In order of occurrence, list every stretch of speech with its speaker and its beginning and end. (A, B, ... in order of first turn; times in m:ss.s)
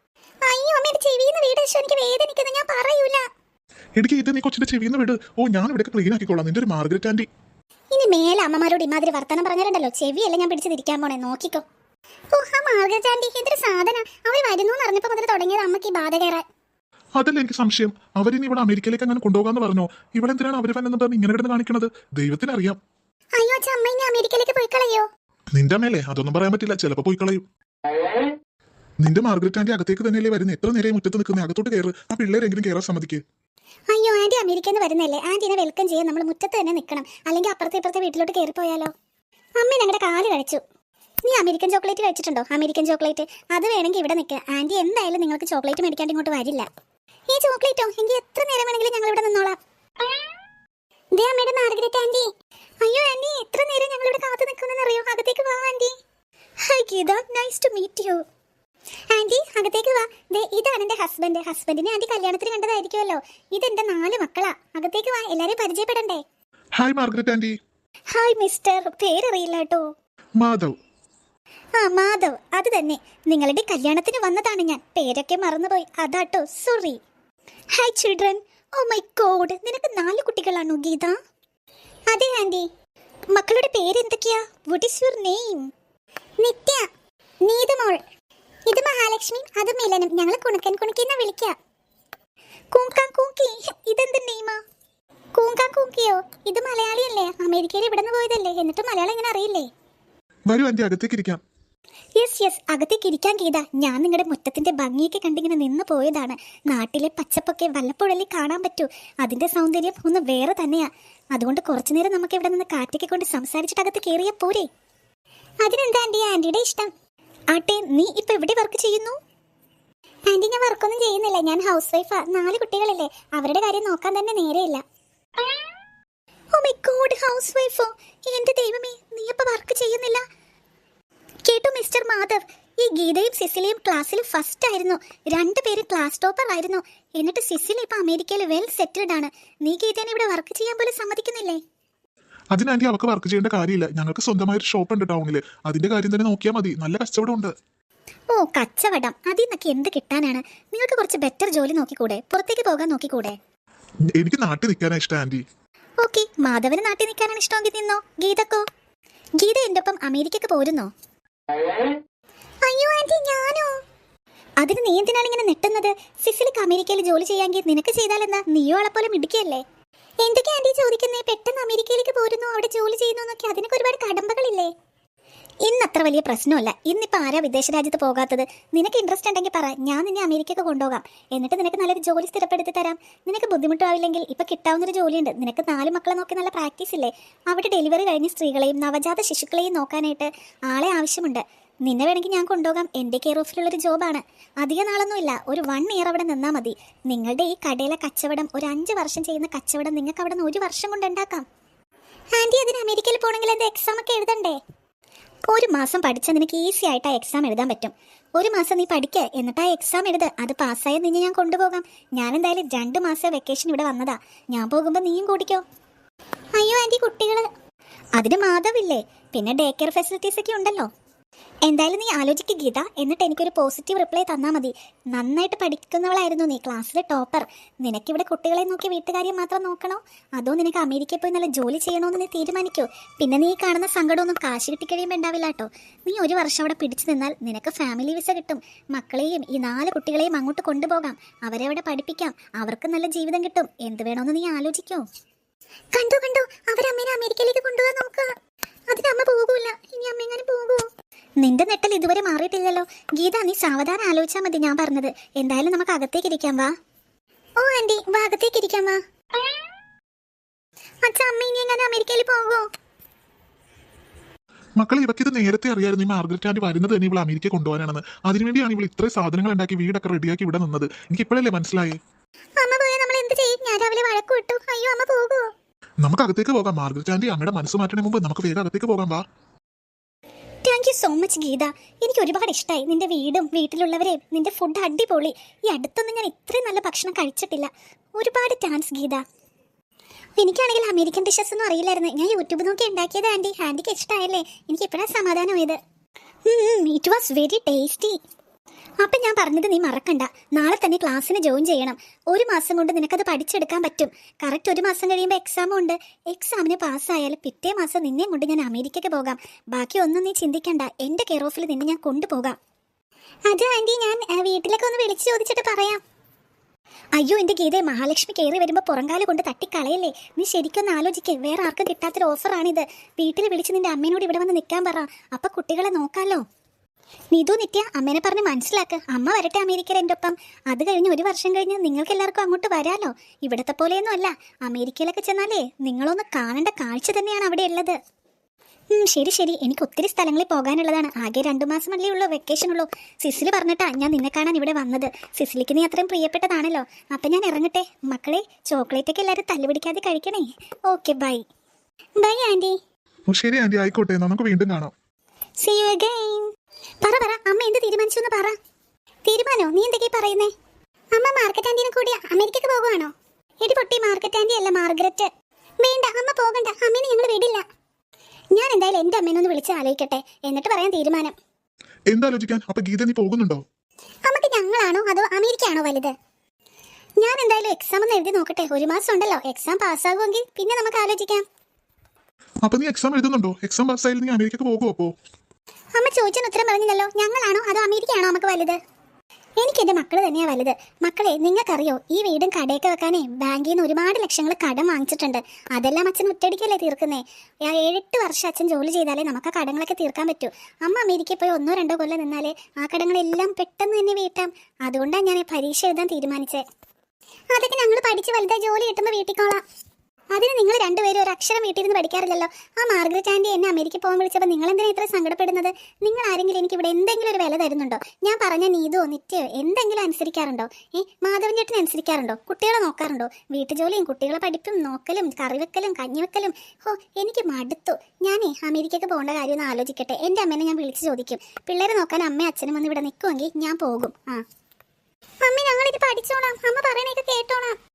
0:00.4-0:03.2 A
0:04.0-0:07.3 B
0:07.9-0:11.6 A
0:12.4-0:16.4 A
0:17.2-0:22.8 B
0:23.4-0:25.1 A
0:25.6-0:27.4 B
0:29.0-0:33.2 B
0:33.9-0:38.9 A
0:39.6-0:40.6 A
0:41.2-0:46.7 A
0:47.3-0:49.6 A
0:51.2-0:52.3 A
0:52.8-0:56.0 A
0:56.6-0:58.2 A
0:59.1-1:06.2 A
1:06.8-1:07.6 B
1:08.1-1:09.9 A
1:10.4-1:10.8 B
1:11.8-1:17.0 A
1:17.7-1:21.2 A
1:22.1-1:22.7 A
1:23.3-1:25.7 A
1:26.4-1:26.9 A
1:27.5-1:28.0 A
1:28.7-1:31.6 A
1:32.7-1:34.6 A
1:35.4-1:39.7 A
1:40.5-1:41.4 B
1:42.2-1:54.7 A
1:55.6-1:56.9 A
1:57.5-1:59.2 A
2:00.3-2:04.8 A
2:06.6-2:10.2 A
2:11.5-2:21.6 A
2:22.5-2:27.5 B
2:28.3-2:33.4 A
2:34.2-2:35.4 B
2:36.0-2:38.6 A
2:39.4-2:40.9 A
2:42.6-2:43.7 A
2:44.6-2:49.6 A
2:50.2-2:54.7 A
2:55.7-3:21.4 A
3:22.4-3:24.6 A
3:25.5-3:35.6 A
3:36.6-3:37.5 A
3:38.2-3:40.9 A
3:41.7-4:05.0 A
4:05.9-4:08.3 A
4:08.9-4:10.9 A
4:11.4-4:16.7 A
4:17.6-4:19.0 A
4:21.0-4:22.7 A
4:24.8-4:32.0 B
4:32.6-4:35.5 A
4:36.0-4:39.2 B
4:40.6-4:49.2 A
4:50.4-4:55.8 A
4:56.5-4:58.2 A
4:59.0-5:12.6 A
5:13.5-5:16.0 A
5:17.2-5:26.4 A
5:27.3-5:38.0 A
5:38.9-5:51.4 A
5:52.2-5:52.8 A
5:53.3-5:54.9 B
5:55.6-5:56.5 A
5:57.0-5:58.6 A
5:59.2-6:00.5 A
6:01.1-6:05.3 A
6:05.8-6:07.6 A
6:08.5-6:11.3 A
6:12.1-6:13.6 B
6:14.3-6:16.1 A
6:17.2-6:21.4 A
6:22.6-6:25.1 B
6:26.0-6:28.8 A
6:29.6-6:46.6 A
6:47.5-6:49.6 A
6:50.3-7:14.4 A
7:15.4-7:17.8 A